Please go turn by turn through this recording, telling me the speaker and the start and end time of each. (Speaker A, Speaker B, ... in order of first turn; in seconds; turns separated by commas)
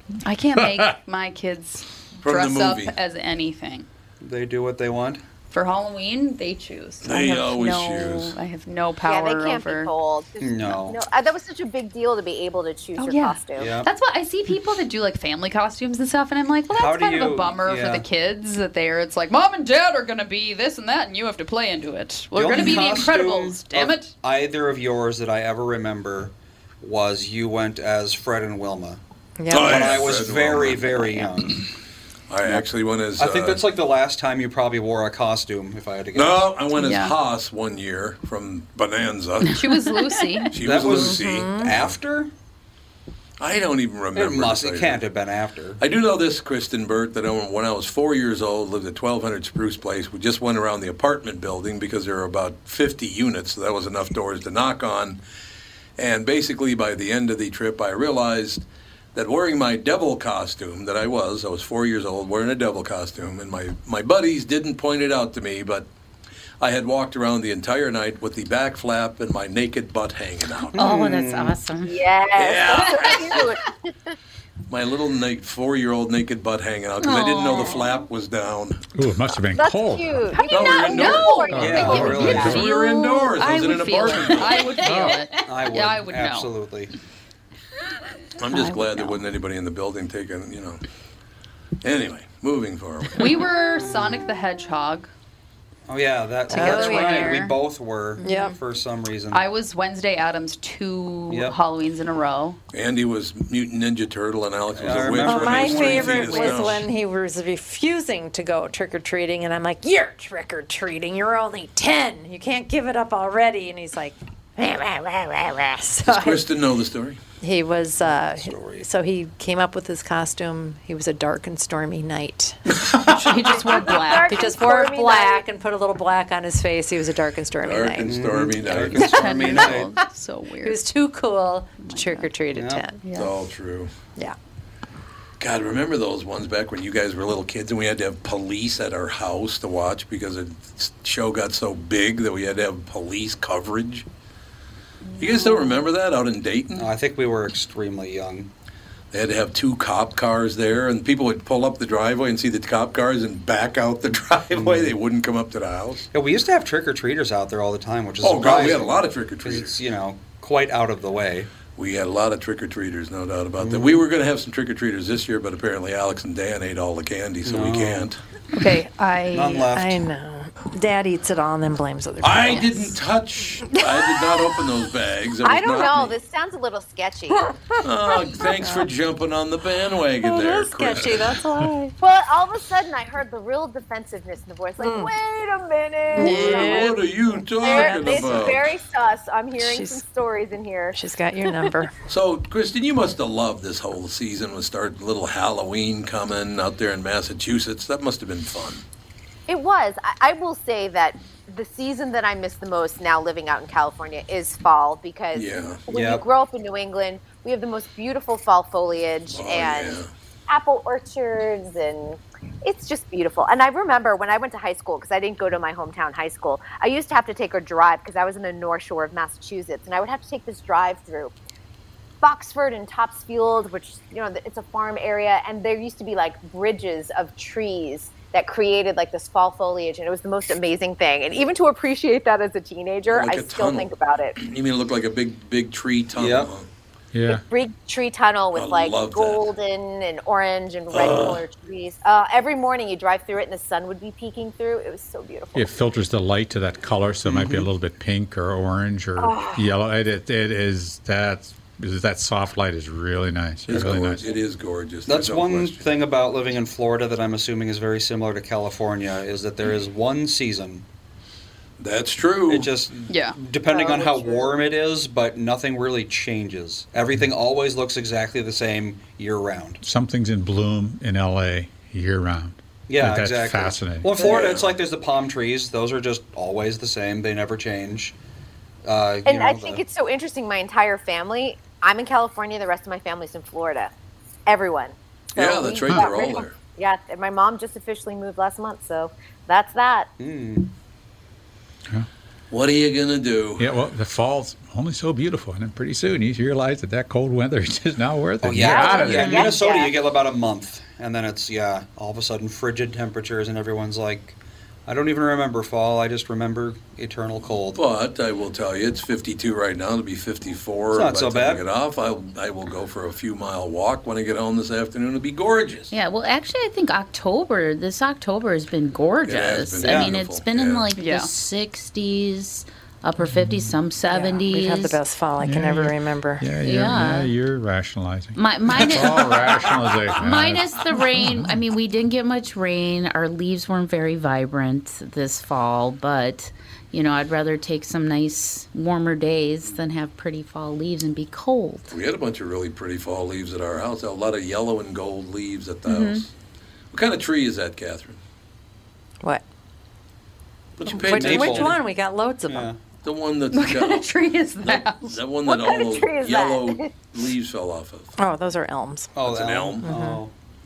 Speaker A: 0.2-3.9, Speaker B: 0.6-0.9, Speaker C: 2.2-3.0, Speaker D: 4.2-5.2, Speaker A: 5.5-9.9, Speaker C: 7.0-8.4, Speaker E: 9.0-13.7, Speaker D: 10.4-11.0, Speaker A: 13.0-24.1, Speaker D: 13.6-13.9, Speaker D: 16.7-18.1, Speaker D: 22.3-31.6, Speaker F: 29.4-29.9, Speaker C: 29.5-30.9, Speaker C: 32.3-33.6, Speaker D: 33.2-36.5, Speaker C: 36.1-39.7, Speaker A: 36.7-37.1, Speaker A: 39.5-40.5, Speaker G: 40.0-40.4, Speaker C: 40.5-41.9, Speaker D: 40.6-42.3, Speaker F: 40.9-41.8, Speaker C: 43.4-45.0, Speaker D: 44.1-45.8, Speaker C: 45.8-55.2, Speaker C: 56.0-58.6, Speaker C: 59.1-65.9, Speaker C: 66.6-70.9, Speaker D: 70.7-71.6, Speaker G: 70.7-72.0, Speaker E: 71.8-74.1, Speaker C: 72.4-73.5, Speaker C: 74.7-78.9, Speaker G: 77.0-77.9, Speaker B: 78.9-80.3, Speaker E: 79.5-82.6, Speaker A: 80.4-86.5, Speaker C: 80.5-84.7, Speaker B: 81.5-82.7, Speaker D: 81.6-82.5, Speaker G: 84.4-85.4, Speaker B: 84.8-85.2, Speaker D: 85.4-86.9, Speaker C: 88.4-90.8, Speaker C: 91.8-93.4, Speaker A: 93.2-95.1, Speaker D: 95.9-99.4, Speaker F: 96.5-97.5, Speaker A: 96.5-97.5, Speaker A: 98.2-98.5, Speaker F: 98.2-98.5, Speaker A: 99.3-102.6, Speaker D: 101.3-101.6, Speaker C: 102.7-106.9, Speaker D: 104.8-106.8, Speaker F: 105.2-116.5, Speaker C: 116.0-117.2, Speaker F: 117.4-128.1, Speaker D: 118.0-118.9, Speaker A: 122.9-124.5, Speaker E: 123.5-125.4, Speaker C: 127.6-129.8, Speaker D: 128.0-129.9, Speaker A: 128.9-130.9, Speaker F: 130.6-133.0, Speaker A: 131.8-132.4, Speaker D: 132.5-132.9, Speaker A: 133.0-133.3, Speaker C: 133.1-133.9, Speaker C: 135.4-144.1, Speaker C: 145.2-146.9, Speaker D: 146.8-148.5, Speaker C: 149.1-156.1, Speaker D: 154.5-154.9, Speaker D: 156.1-161.5, Speaker C: 158.2-159.8, Speaker C: 161.7-168.2, Speaker D: 163.6-164.0, Speaker D: 167.4-168.1, Speaker A: 168.5-169.7, Speaker F: 168.6-172.9, Speaker D: 169.3-170.0, Speaker C: 172.2-176.2, Speaker E: 175.4-177.5, Speaker F: 177.3-178.9, Speaker C: 177.8-181.4, Speaker F: 180.2-182.0, Speaker E: 182.0-187.0, Speaker F: 184.8-185.1, Speaker F: 186.1-187.0, Speaker C: 186.2-188.7, Speaker E: 187.6-191.7, Speaker F: 187.6-188.5, Speaker F: 189.6-190.0, Speaker F: 190.9-191.9, Speaker C: 192.1-198.8, Speaker E: 199.5-221.3, Speaker C: 205.3-205.8, Speaker D: 205.9-206.2, Speaker C: 209.3-210.1, Speaker E: 222.2-234.4, Speaker C: 233.1-236.7, Speaker D: 236.1-236.5, Speaker B: 237.1-237.4, Speaker E: 237.3-245.8, Speaker C: 238.5-239.5, Speaker C: 240.9-241.4, Speaker B: 245.5-254.3, Speaker D: 247.2-247.7, Speaker E: 249.2-249.8, Speaker C: 253.7-255.9, Speaker D: 255.1-260.9, Speaker C: 261.8-262.7, Speaker D: 262.5-269.8, Speaker A: 263.1-263.4, Speaker B: 269.8-274.1, Speaker D: 272.9-278.1, Speaker C: 274.1-274.7, Speaker D: 278.8-279.8, Speaker E: 279.2-283.9, Speaker E: 284.5-290.1, Speaker C: 285.4-286.5, Speaker D: 290.2-290.7, Speaker C: 292.5-293.7, Speaker B: 293.6-299.5, Speaker D: 298.4-307.8, Speaker E: 298.6-300.0, Speaker G: 299.1-299.5, Speaker C: 307.7-315.9, Speaker D: 310.9-311.6, Speaker G: 315.9-325.0, Speaker C: 319.2-320.9, Speaker D: 319.8-320.1, Speaker A: 321.0-321.3, Speaker B: 323.2-323.8, Speaker F: 324.1-326.4, Speaker B: 325.4-331.5, Speaker G: 326.6-327.3, Speaker G: 328.4-341.9, Speaker C: 341.9-346.3, Speaker G: 345.9-346.2, Speaker C: 346.9-348.2, Speaker C: 350.8-351.8, Speaker F: 350.9-352.7, Speaker D: 351.1-351.9, Speaker D: 352.5-352.8, Speaker C: 353.0-358.1, Speaker A: 353.5-355.2, Speaker E: 355.5-356.9, Speaker F: 358.2-359.1, Speaker D: 359.1-360.3, Speaker C: 359.2-359.9, Speaker F: 359.8-360.2